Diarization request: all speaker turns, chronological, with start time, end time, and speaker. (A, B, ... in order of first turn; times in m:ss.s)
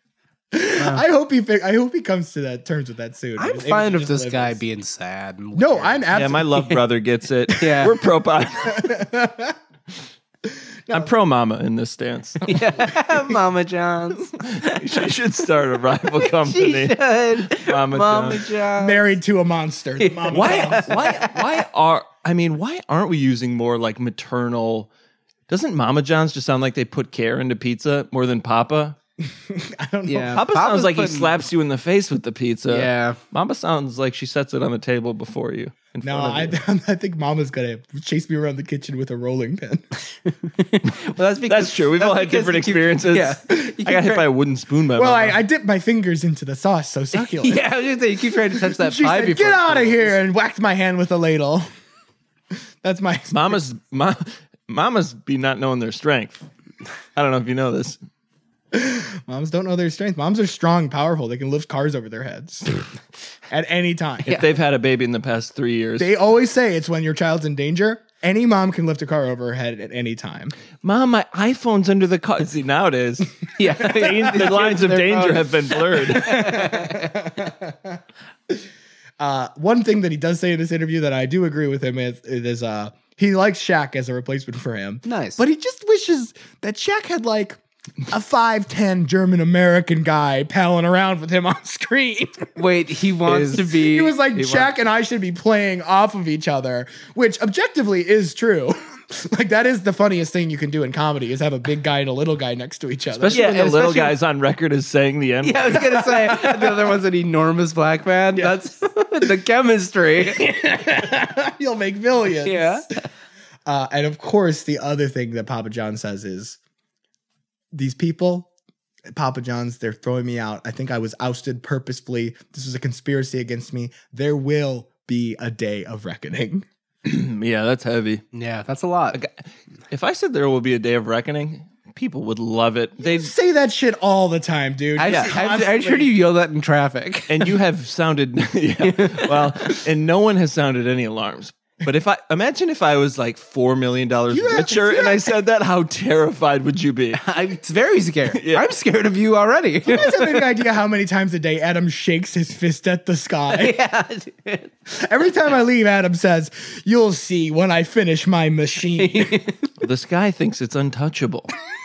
0:00.5-0:04.6 A
0:03.4-0:06.1 B
0:05.5-0:06.8 A
0:06.1-0:09.0 C
0:07.6-0:08.0 B
0:08.6-0:09.6 A
0:10.9-0:12.6 C
0:12.4-0:15.1 B
0:14.4-0:18.4 C
0:16.2-0:19.1 B
0:18.8-0:21.2 A
0:20.0-0:21.5 B
0:20.3-0:24.9 C
0:25.5-0:29.0 C
0:29.2-0:30.4 A
0:30.1-0:31.3 B
0:30.3-0:36.5 C
0:32.7-0:33.2 B
0:36.0-0:39.8 A
0:40.3-0:44.2 B
0:41.5-0:45.4 C
0:45.0-0:47.6 A
0:47.1-0:50.2 B
0:48.5-0:51.6 A
0:52.8-0:53.6 A
0:53.3-0:56.4 C
0:57.1-0:58.0 C
0:58.7-1:02.7 A
1:03.5-1:04.4 A
1:04.2-1:06.1 C
1:06.0-1:10.5 A
1:10.8-1:16.6 C
1:13.6-1:17.3 B
1:16.2-1:18.0 A
1:19.2-1:32.5 A
1:25.0-1:25.4 B
1:32.6-1:34.6 B
1:33.3-1:43.5 A
1:43.2-1:45.8 C
1:43.3-1:44.2 B
1:45.4-1:50.5 B
1:45.9-1:47.0 A
1:50.2-1:52.8 A
1:52.4-1:52.9 B
1:53.6-1:56.6 A
1:57.7-1:58.5 A
1:59.1-2:06.6 A
2:07.0-2:08.2 C
2:08.3-2:09.2 B
2:09.1-2:13.3 C
2:13.0-2:16.1 A
2:15.0-2:17.6 B
2:15.1-2:15.3 C
2:17.3-2:27.2 C
2:18.8-2:19.8 B
2:24.3-2:25.3 A
2:27.2-2:30.4 B
2:28.3-2:28.6 C
2:29.9-2:33.8 A
2:33.5-2:34.7 B
2:34.9-2:39.4 A
2:39.0-2:39.7 B
2:39.8-2:41.5 C